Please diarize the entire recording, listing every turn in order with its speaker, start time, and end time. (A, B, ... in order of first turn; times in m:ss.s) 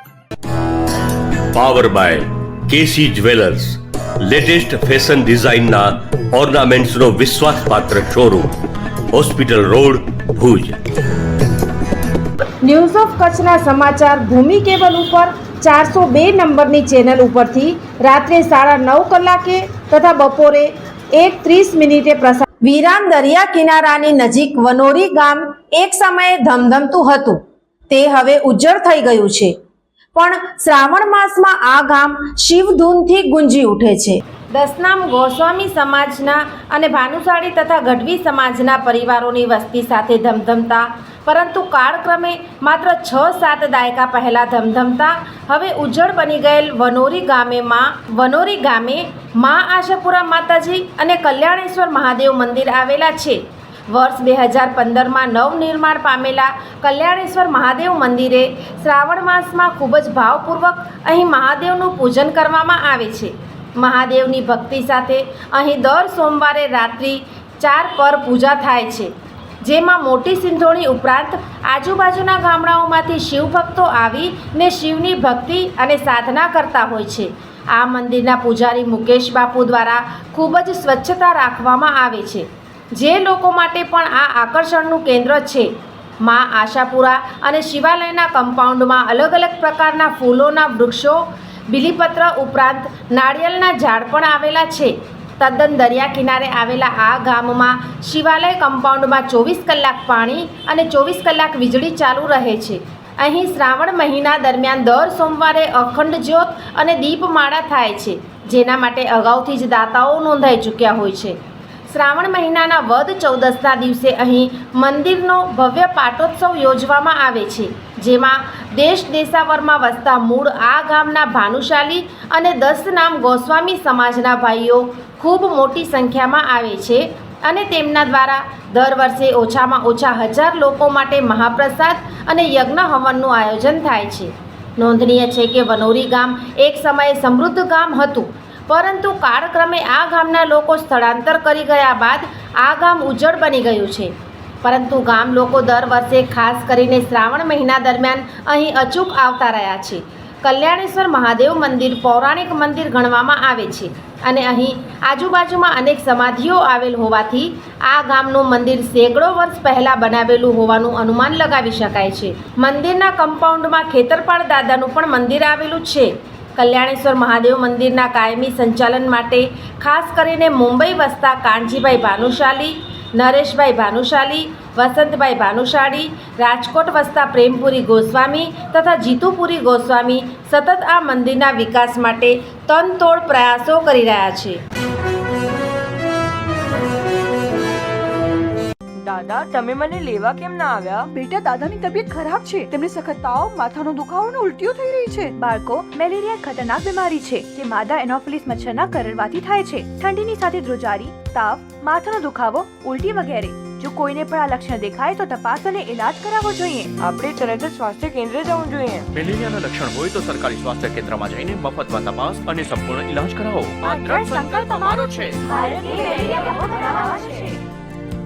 0:01.5-0:08.5 A
0:09.1-0:10.8 A
0:12.6-0:29.5 B
0:30.1-1:09.1 B
1:09.6-1:25.7 B
1:26.2-1:51.4 B
1:51.9-3:04.6 B
3:09.0-3:11.1 C
3:11.1-3:15.3 D
3:15.4-3:26.9 E
3:27.0-3:29.1 C
3:29.1-3:35.4 F
3:34.1-3:34.6 E
3:35.5-3:37.5 E
3:35.7-3:36.7 C